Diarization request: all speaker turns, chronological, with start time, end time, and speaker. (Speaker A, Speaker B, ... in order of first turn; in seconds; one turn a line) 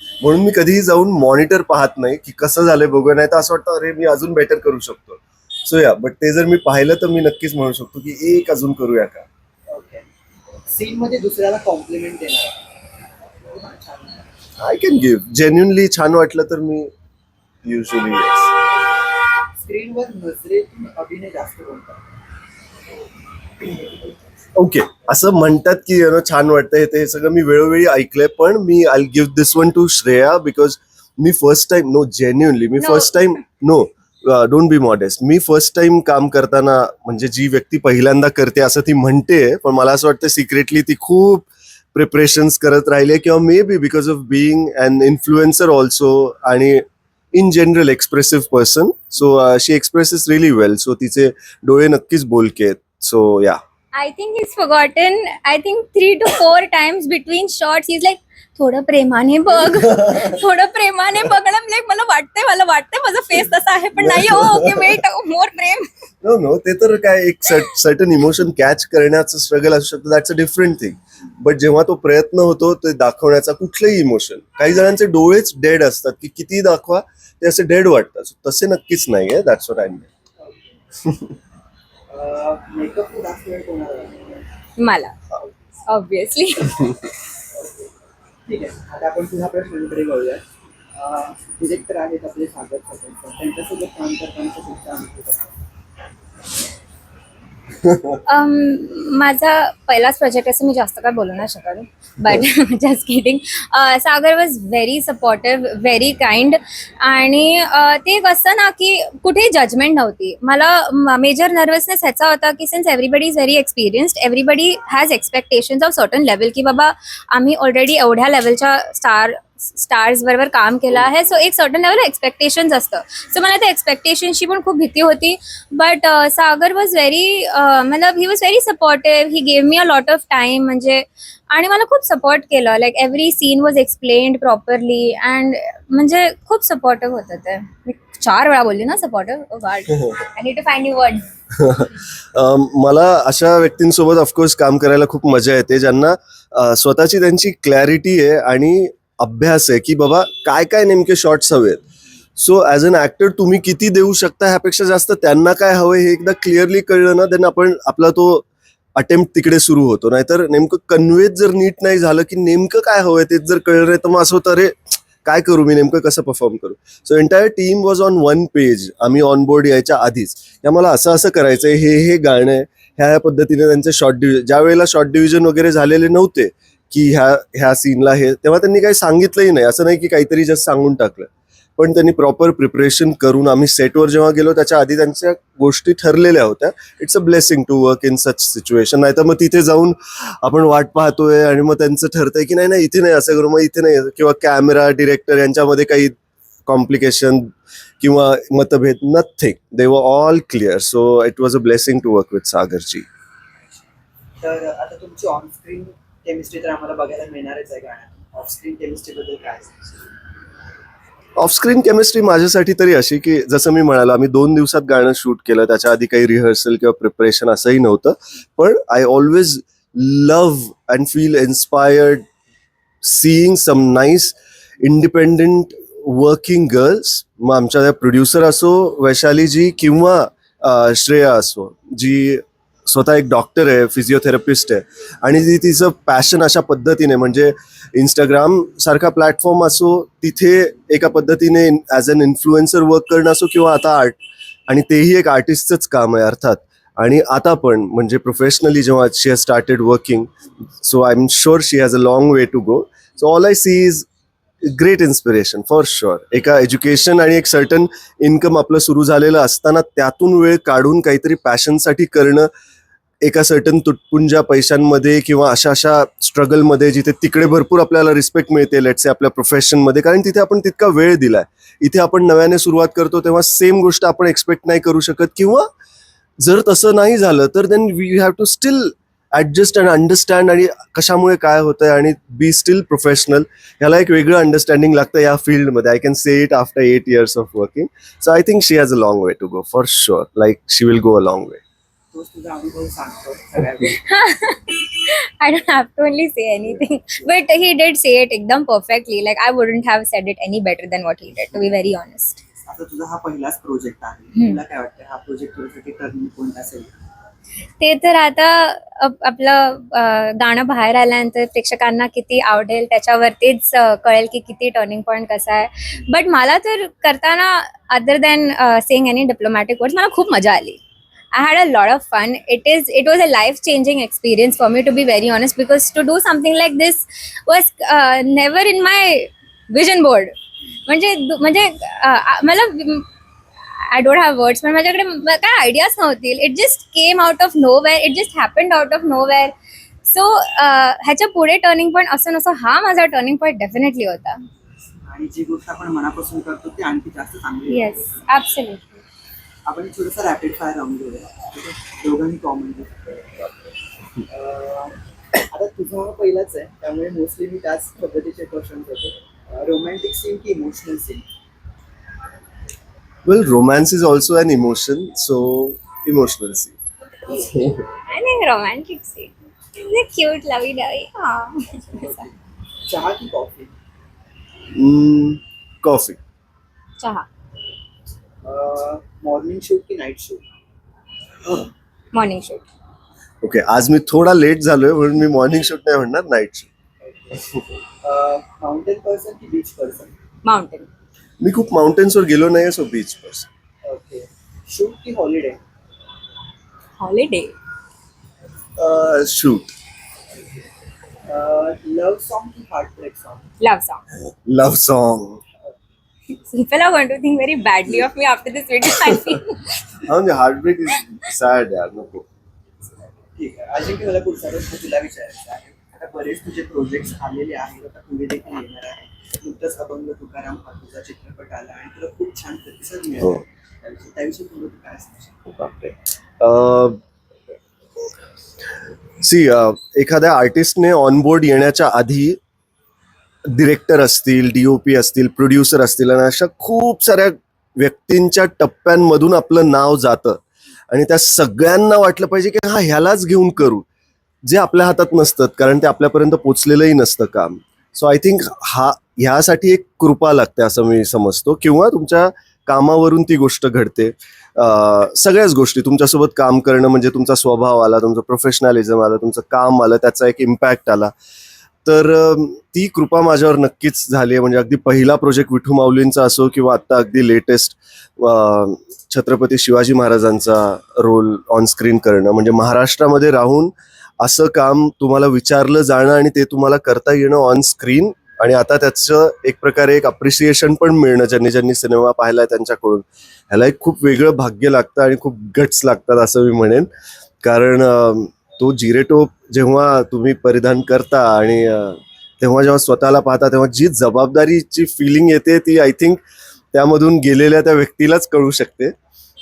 Speaker A: 0.2-9.3
Speaker B: 9.7-10.1
Speaker B: 10.7-12.7
Speaker B: 13.4-14.3
Speaker A: 14.6-16.9
Speaker A: 17.6-18.5
Speaker B: 19.6-22.0
Speaker A: 24.6-53.6
Speaker C: 32.8-33.1
Speaker C: 53.9-65.9
Speaker A: 59.6-60.4
Speaker A: 64.0-65.0
Speaker A: 66.2-80.1
Speaker B: 80.4-80.7
Speaker B: 82.1-84.5
Speaker C: 84.8-85.2
Speaker C: 85.9-86.8
Speaker B: 87.5-87.9
Speaker B: 88.5-90.4
Speaker B: 90.9-95.6
Speaker A: 97.9-98.2
Speaker C: 98.3-141.3
Speaker A: 141.6-151.8
Speaker A: 152.4-203.1
Speaker B: 204.4-210.1
Speaker A: 211.4-222.3
Speaker A: 223.0-254.1
Speaker A: 254.6-262.5
Speaker A: 263.2-275.7
Speaker A: 276.4-291.6
Speaker B: 292.1-294.0
Speaker C: 293.9-302.4
Speaker B: 302.6-306.9
Speaker C: 307.8-320.8
Speaker C: 321.3-330.4
Speaker C: 330.9-333.1
Speaker C: 333.8-339.5
Speaker C: 340.1-344.4
Speaker B: 345.0-348.1
Speaker C: 347.7-349.0
Speaker B: 349.7-353.6
Speaker B: 354.3-361.3
Speaker A: 363.2-366.8
Speaker A: 367.3-367.8
Speaker C: 368.1-372.2
Speaker B: 371.9-372.3
Speaker B: 372.9-373.7
Speaker A: 374.7-376.2
Speaker C: 377.0-377.3
Speaker B: 378.4-380.4
Speaker C: 382.1-382.6
Speaker A: 383.4-386.7
Speaker B: 387.0-387.4
Speaker B: 388.0-390.2
Speaker C: 390.4-390.9
Speaker A: 391.4-393.5
Speaker B: 393.8-395.6
Speaker C: 397.0-397.5
Speaker A: 398.8-399.7
Speaker B: 400.3-400.6
Speaker B: 401.3-403.5
Speaker C: 403.6-404.0
Speaker A: 404.4-405.4
Speaker C: 406.4-409.9
Speaker A: 410.0-412.2
Speaker B: 413.3-425.4
Speaker A: 425.5-427.0
Speaker A: 429.2-432.4
Speaker A: 433.4-443.9
Speaker A: 444.4-461.1
Speaker A: 461.9-486.9
Speaker A: 487.4-496.2
Speaker A: 496.7-498.9